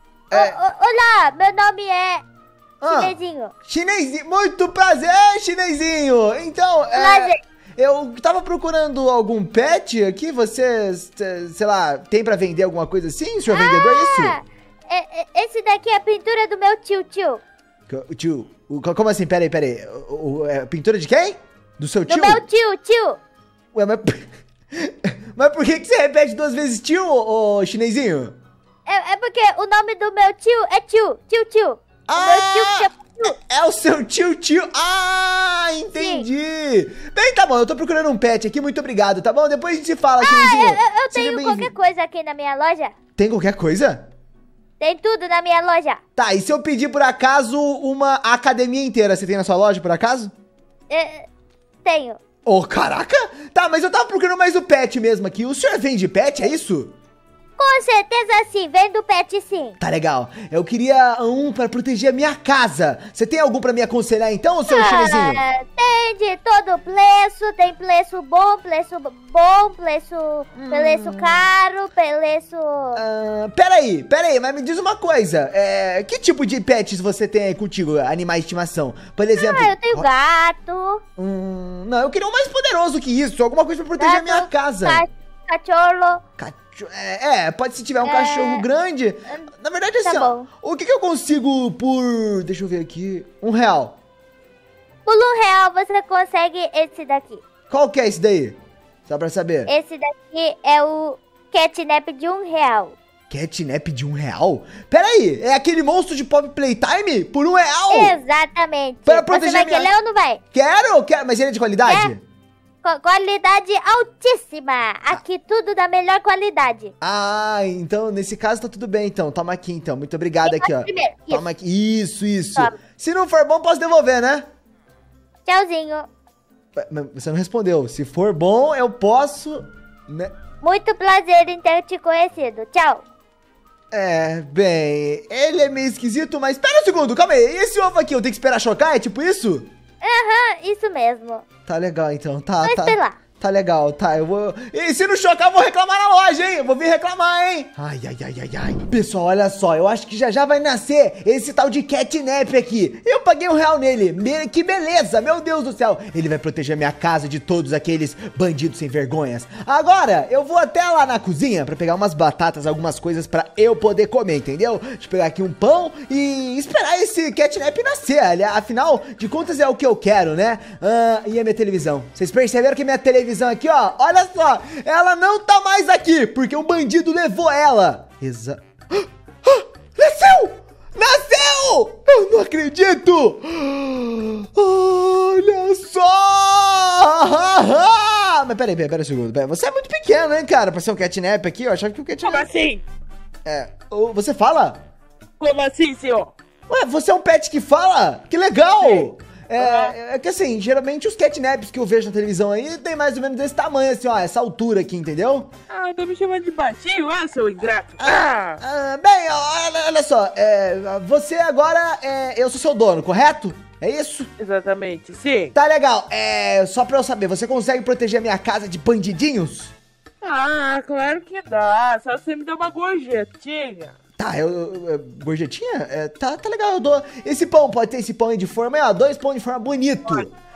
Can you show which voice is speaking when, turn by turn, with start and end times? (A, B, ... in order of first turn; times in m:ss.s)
0:00.3-0:02.2 A
0:00.3-0:00.6 B
0:02.8-0:14.4 B
0:02.9-0:03.5 A
0:07.0-0:07.4 A
0:13.5-0:17.4 A
0:17.9-0:22.4 B
0:22.1-0:23.2 A
0:23.7-0:28.4 B
0:28.9-0:33.3 A
0:32.1-0:41.7 B
0:36.0-0:36.3 A
0:40.2-0:43.0 A
0:43.2-0:44.1 B
0:44.8-0:46.0 A
0:46.2-0:50.3 B
0:50.9-0:51.3 A
0:51.8-0:52.2 A
0:52.4-0:57.0 B
0:57.6-0:59.8 A
0:59.8-1:05.4 B
1:04.7-1:13.0 A
1:10.6-1:11.5 B
1:13.0-1:20.1 B
1:19.4-1:21.0 A
1:21.2-1:25.0 B
1:24.0-1:26.2 A
1:26.4-1:34.0 B
1:28.0-1:28.7 A
1:30.0-1:30.5 A
1:35.1-1:37.4 A
1:37.7-1:39.7 B
1:39.7-1:43.0 A
1:43.3-1:48.2 B
1:47.9-1:50.4 A
1:49.1-1:49.9 B
1:50.5-1:52.2 B
1:51.8-1:52.1 A
1:52.8-1:56.9 A
1:57.0-2:04.5 B
2:00.4-2:01.5 A
2:05.5-2:06.1 A
2:06.8-2:10.3 B
2:10.6-2:13.0 A
2:13.9-2:19.7 B
2:20.0-2:21.4 A
2:21.7-3:12.5 B
2:22.6-2:23.2 A
3:12.2-3:12.8 C
3:13.4-3:14.8 B
3:15.4-3:16.3 C
3:16.7-3:25.5 B
3:18.8-3:20.0 C
3:25.7-3:28.6 C
3:28.0-3:34.3 B
3:34.4-3:35.5 C
3:35.5-3:39.7 B
3:40.2-3:44.0 C
3:44.2-3:50.3 B
3:50.0-3:50.3 C